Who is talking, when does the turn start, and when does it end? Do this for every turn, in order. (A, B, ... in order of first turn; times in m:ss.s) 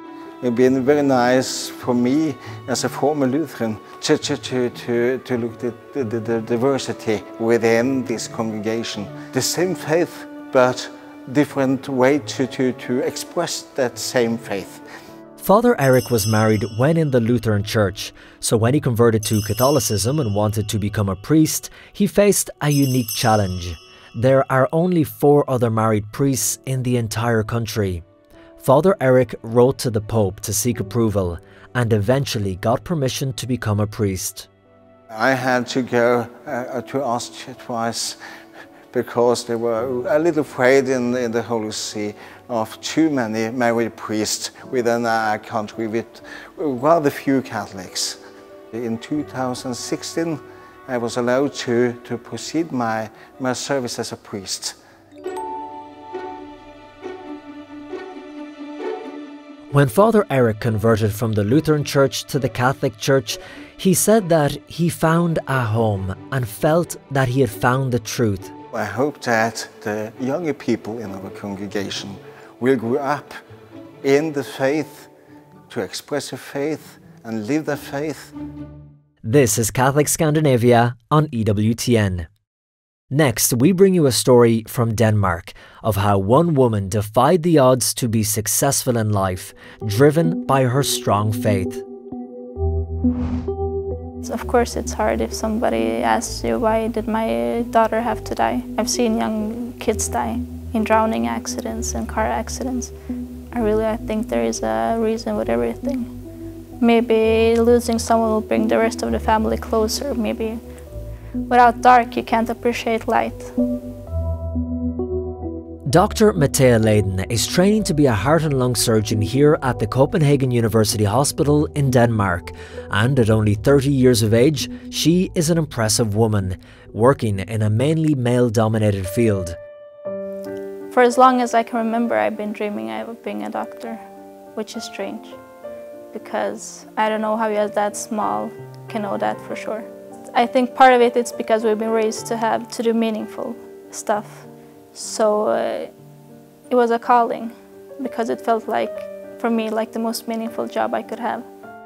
0:00.4-0:14.8 A
0:15.4-0:28.0 B
0:28.6-0:34.5 B
0:35.1-0:38.2 A
0:38.9-0:48.2 A
0:48.7-0:54.8 A
0:59.7-1:08.5 B
1:08.7-1:13.4 A
1:14.0-1:15.1 A
1:15.7-1:18.3 A
1:19.2-1:22.3 B
1:23.1-1:31.8 B
1:34.2-1:42.9 C
1:43.5-1:46.1 C
1:46.8-1:50.6 C
1:51.5-1:53.6 C
1:55.9-2:09.6 B
2:10.9-2:14.0 C
2:14.6-2:15.4 C
2:16.1-2:25.9 C
2:26.7-2:31.5 C